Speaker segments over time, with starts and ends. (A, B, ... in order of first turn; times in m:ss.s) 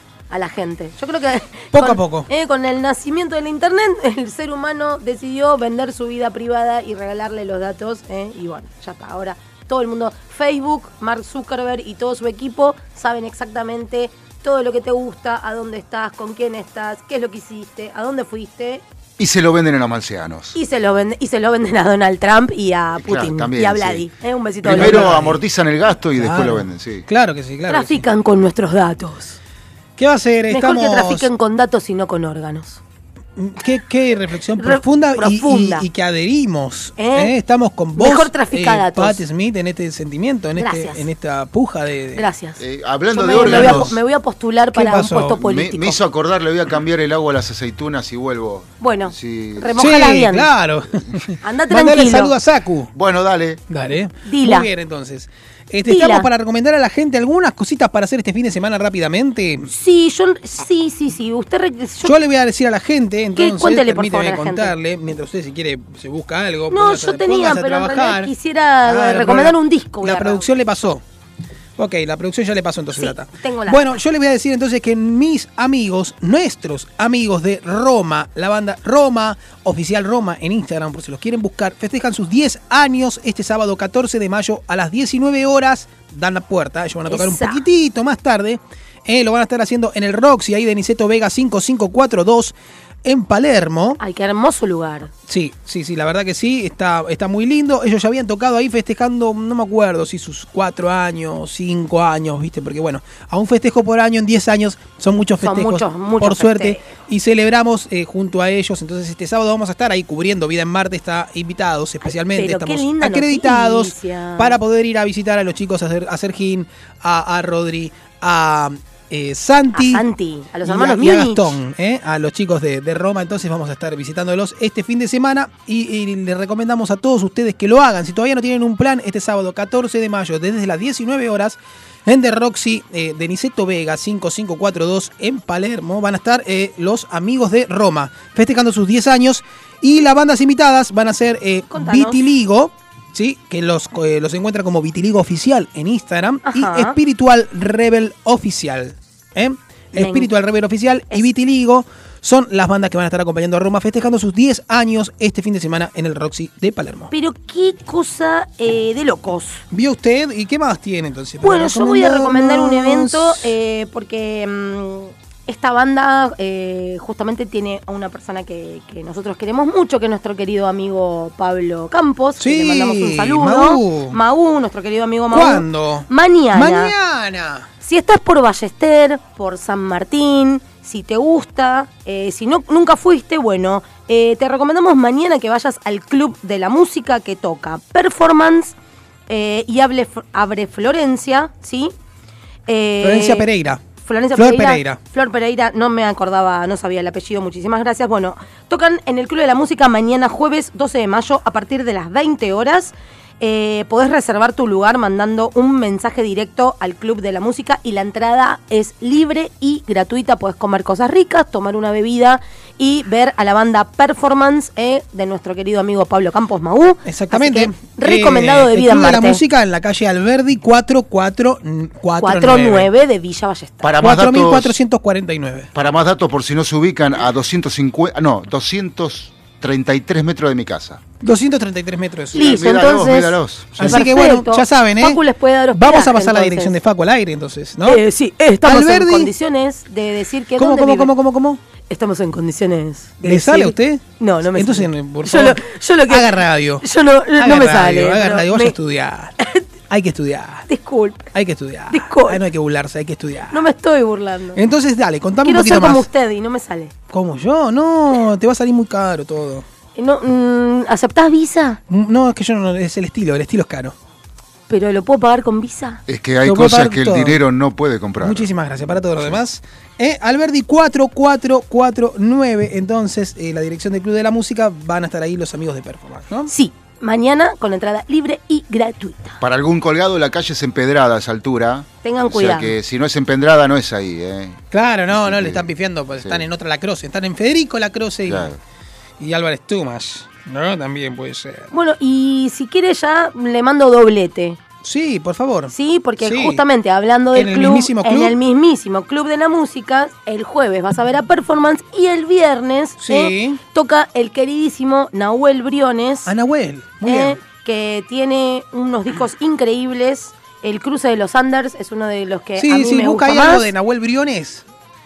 0:00.3-0:18.8 A
0:01.7-0:02.3 B
0:19.2-0:20.6 C
0:20.5-0:25.2 A
0:23.0-0:24.0 C
0:24.6-0:25.4 B
0:24.6-0:27.0 C
0:26.2-0:28.0 B
0:27.7-0:29.4 A
0:30.0-0:31.3 B
0:30.5-0:32.8 A
0:33.4-0:42.2 B
0:34.6-0:35.8 A
0:37.0-0:37.3 A
0:38.0-0:39.2 A
0:40.6-0:41.0 A
0:42.2-0:42.6 A
0:42.6-0:43.9 C
0:43.1-0:46.0 A
0:43.3-0:43.9 B
0:44.7-0:45.4 B
0:45.4-0:49.9 C
0:48.8-0:50.5 A
0:49.8-0:52.9 B
0:51.4-0:52.3 A
0:52.9-0:53.6 C
0:53.7-0:59.7 B
0:54.2-0:54.7 A
0:55.9-0:56.3 A
0:59.7-1:02.1 A
1:02.0-1:08.3 B
1:03.4-1:04.7 A
1:06.7-1:10.4 A
1:08.8-1:11.0 B
1:11.8-1:32.5 B
1:13.0-1:14.0 A
1:27.1-1:27.6 A
1:33.0-1:34.0 B
1:34.0-1:35.1 A
1:35.3-2:00.0 B
1:45.4-1:46.8 A
1:52.0-1:54.6 A
1:59.7-2:01.6 A
2:00.6-2:37.1 B
2:21.7-2:22.2 A
2:26.4-2:27.0 A
2:29.9-2:30.3 A
2:37.1-2:39.6 A
2:39.7-2:43.5 B
2:41.4-2:56.9 A
2:52.4-2:54.2 B
2:55.3-2:57.6 B
2:57.8-3:08.7 A
3:09.3-3:11.9 A
3:12.7-3:13.5 A
3:13.0-3:13.8 B
3:14.0-3:39.4 A
3:14.4-3:15.0 B
3:37.0-3:42.9 B
3:42.2-3:43.9 A
3:43.8-3:44.7 C
3:44.0-3:45.7 B
3:45.7-3:51.0 C
3:51.2-3:52.6 B
3:52.3-3:54.1 C
3:52.3-3:56.7 A
3:53.8-3:55.2 B
3:55.7-3:58.0 B
3:57.8-4:01.1 A
3:58.6-3:59.3 B
4:00.6-4:01.6 B
4:01.9-4:06.3 A
4:03.2-4:04.0 B
4:04.5-4:06.8 B
4:06.8-4:08.7 A
4:07.4-4:09.3 B
4:09.9-4:10.6 B
4:10.7-4:11.3 A
4:11.3-4:13.6 B
4:11.9-4:12.4 A
4:13.5-4:14.6 A
4:14.5-4:16.1 B
4:15.4-4:16.9 A
4:17.1-4:19.6 B
4:20.0-4:21.8 A
4:21.9-4:23.9 B
4:24.7-4:26.0 A
4:26.1-4:28.5 C
4:26.4-4:27.4 B
4:28.2-4:36.5 B
4:36.5-4:39.4 A
4:39.4-4:45.6 C
4:42.0-4:42.7 A
4:44.7-4:48.5 B
4:46.2-4:46.4 C
4:48.2-4:48.6 C
4:49.2-4:51.7 B
4:51.7-4:54.6 A
4:54.8-4:56.6 B
4:55.7-5:06.3 A
4:57.3-4:58.3 B
5:03.0-5:03.6 B
5:06.3-5:07.4 B
5:07.0-5:13.6 A
5:12.6-5:14.6 B